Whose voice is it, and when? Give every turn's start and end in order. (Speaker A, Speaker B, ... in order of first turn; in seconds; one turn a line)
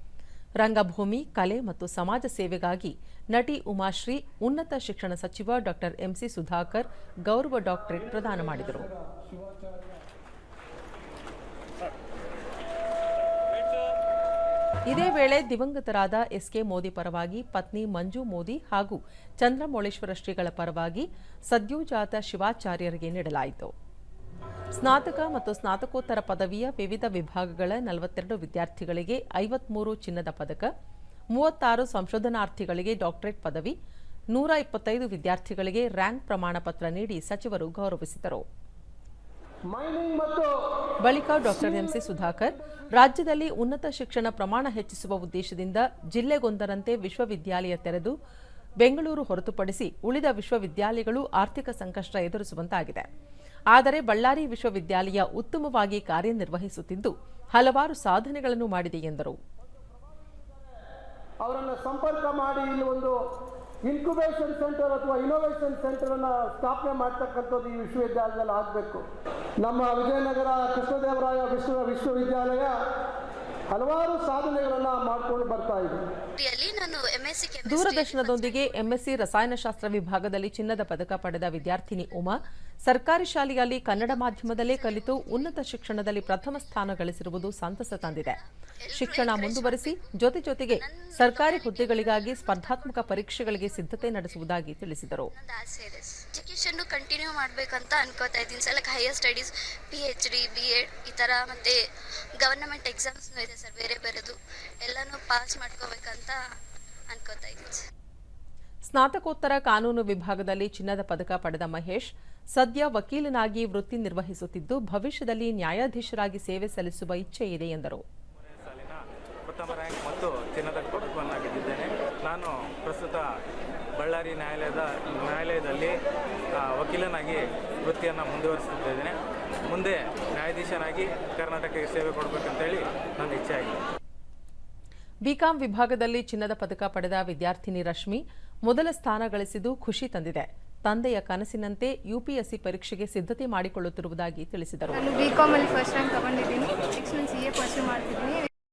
Speaker A: 0.6-8.9
Speaker A: 14.9-23.7
Speaker A: 24.8-30.7
Speaker A: 31.3-33.7
Speaker A: 34.3-38.4
Speaker B: 39.7-40.5
Speaker A: 41.0-48.1
Speaker B: 41.6-42.8
Speaker A: 48.8-53.1
Speaker A: 53.7-59.4
Speaker B: 61.4-63.1
Speaker B: 63.8-69.0
Speaker B: 69.6-72.7
Speaker B: 73.7-76.0
Speaker C: 76.4-78.9
Speaker A: 77.7-88.4
Speaker C: 83.9-86.9
Speaker C: 88.0-90.0
Speaker A: 88.9-95.3
Speaker C: 90.7-94.5
Speaker C: 95.3-101.8
Speaker C: 102.4-106.4
Speaker C: 107.1-107.8
Speaker A: 108.8-118.0
Speaker D: 118.6-123.2
Speaker D: 124.0-126.0
Speaker D: 126.6-129.2
Speaker D: 129.7-133.8
Speaker A: 135.2-145.1
Speaker E: 144.9-148.5